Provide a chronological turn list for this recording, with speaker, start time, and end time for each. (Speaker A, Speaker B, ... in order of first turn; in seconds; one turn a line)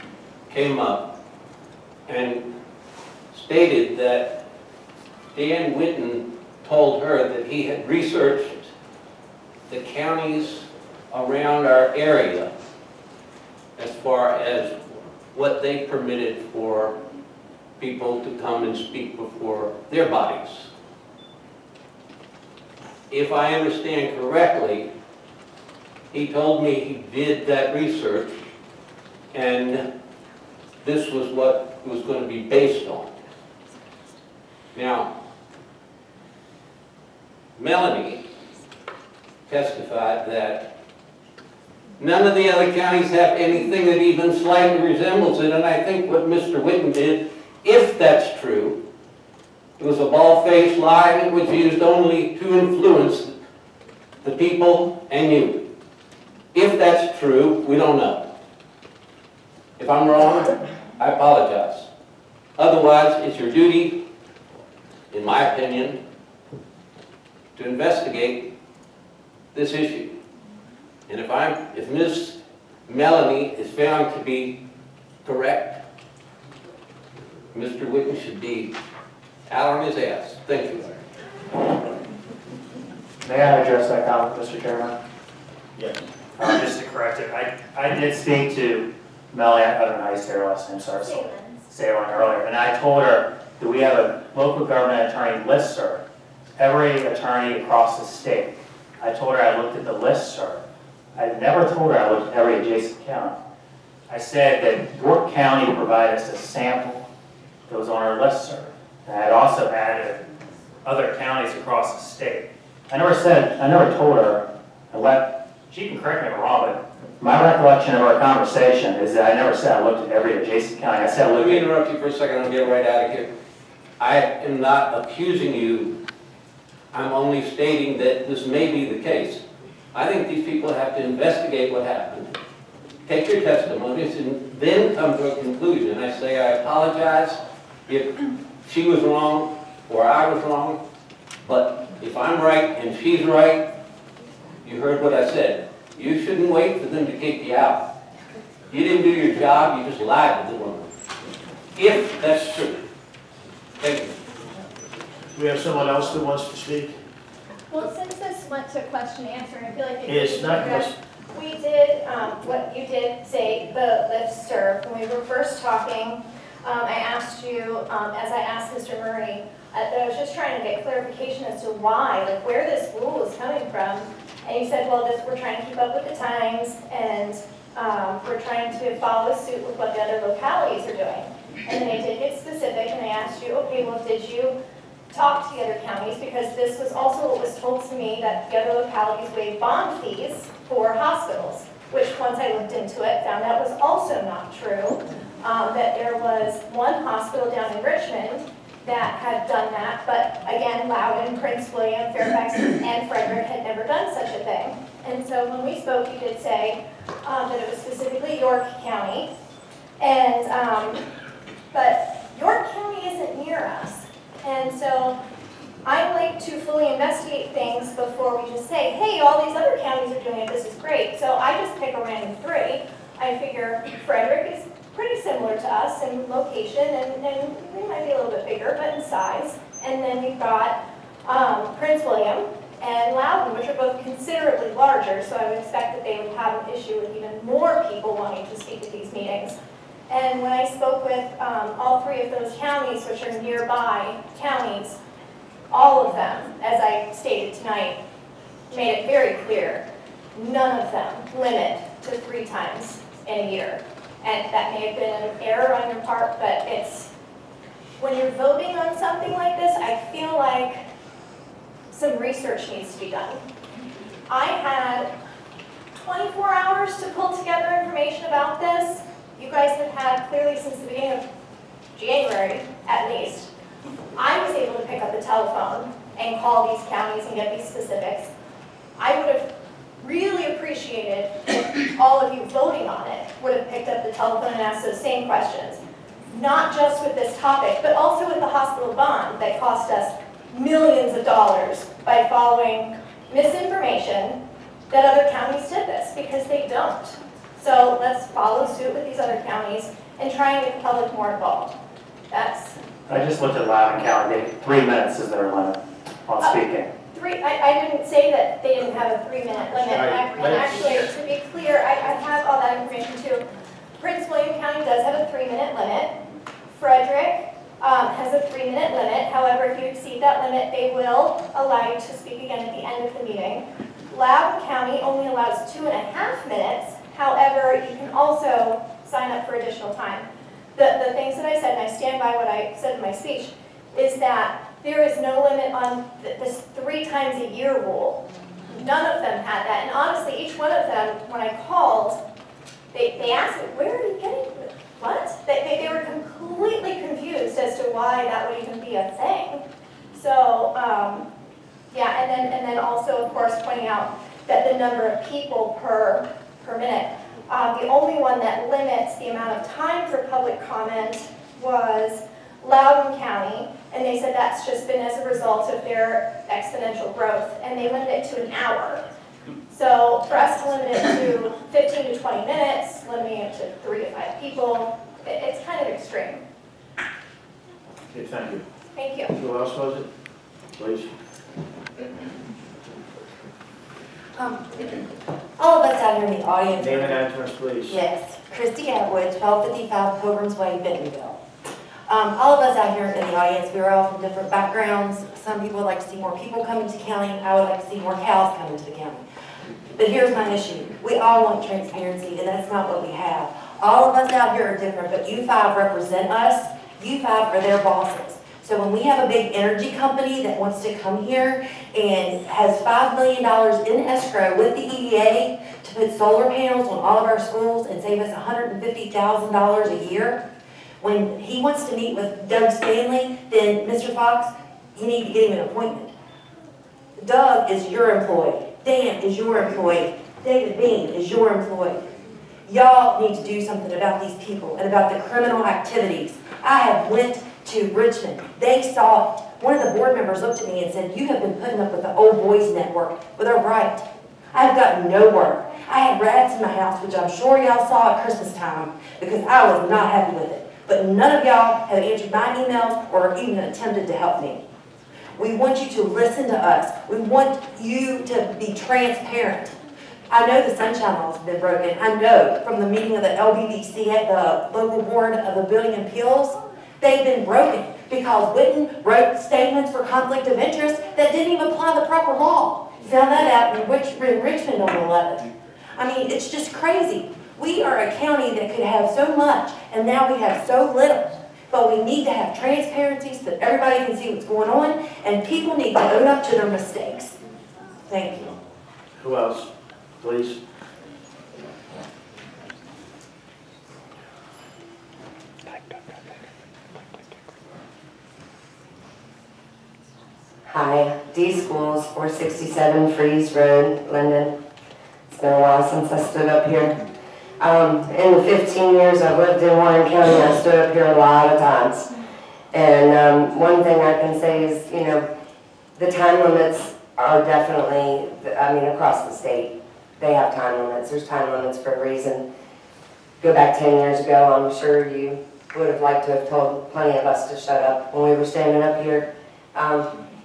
Speaker A: 0.5-1.1
Speaker A: 2.1-2.5
Speaker A: 3.3-4.4
Speaker A: 5.3-8.7
Speaker A: 9.7-12.5
Speaker A: 13.8-16.9
Speaker A: 17.8-20.7
Speaker A: 23.1-24.9
Speaker A: 26.1-28.3
Speaker A: 29.3-29.9
Speaker A: 30.8-33.1
Speaker A: 34.7-35.1
Speaker A: 37.6-38.2
Speaker A: 39.5-40.7
Speaker A: 42.0-48.8
Speaker A: 49.8-53.3
Speaker A: 54.2-55.6
Speaker A: 56.5-58.3
Speaker A: 59.8-61.9
Speaker A: 62.6-64.0
Speaker A: 65.1-66.0
Speaker A: 67.5-68.5
Speaker A: 69.5-70.2
Speaker A: 71.1-74.6
Speaker A: 75.2-75.8
Speaker A: 77.5-78.7
Speaker A: 79.5-80.9
Speaker B: 83.2-85.0
Speaker C: 85.8-86.0
Speaker B: 86.4-96.0
Speaker D: 91.0-91.6
Speaker B: 96.6-100.6
Speaker B: 101.1-103.4
Speaker B: 104.1-107.0
Speaker B: 107.7-110.2
Speaker B: 110.8-121.7
Speaker A: 121.3-123.3
Speaker A: 124.0-126.0
Speaker A: 126.9-129.4
Speaker A: 129.9-132.3
Speaker A: 133.1-140.8
Speaker A: 141.4-143.7
Speaker A: 144.6-147.8
Speaker A: 148.7-150.9
Speaker A: 151.7-152.8
Speaker A: 153.8-154.2
Speaker C: 155.3-156.9
Speaker D: 157.7-184.5
Speaker C: 160.1-160.9
Speaker D: 185.1-209.3
Speaker D: 210.0-211.0
Speaker D: 211.7-215.2
Speaker D: 215.8-239.6
Speaker D: 240.1-245.0
Speaker D: 245.7-248.0
Speaker D: 248.7-257.1
Speaker D: 258.0-260.8
Speaker D: 261.9-263.4
Speaker D: 264.3-265.1
Speaker D: 266.0-271.2
Speaker D: 271.9-273.5
Speaker D: 274.1-278.3
Speaker D: 279.0-294.4
Speaker D: 294.9-301.7
Speaker D: 302.3-302.8
Speaker B: 303.1-306.9
Speaker D: 307.1-313.4
Speaker C: 309.8-311.1
Speaker D: 314.0-316.1
Speaker D: 316.7-342.2
Speaker D: 342.9-349.6
Speaker D: 350.1-351.2
Speaker D: 351.9-369.0
Speaker D: 369.7-376.4
Speaker C: 378.1-378.6
Speaker D: 378.9-379.3
Speaker C: 379.3-380.1
Speaker C: 380.7-381.1
Speaker E: 384.3-385.0
Speaker E: 385.6-387.2
Speaker C: 386.8-388.0
Speaker E: 387.9-391.4
Speaker E: 392.1-399.2
Speaker E: 400.0-420.4
Speaker E: 421.0-426.1
Speaker E: 427.2-432.0
Speaker E: 432.6-454.6
Speaker E: 455.4-459.8
Speaker E: 460.3-487.3
Speaker E: 488.1-488.5
Speaker C: 489.2-489.7
Speaker C: 490.2-490.6
Speaker F: 500.7-504.5
Speaker F: 505.3-506.9
Speaker F: 507.6-512.1
Speaker F: 512.7-515.2
Speaker F: 516.0-522.4
Speaker F: 523.4-530.1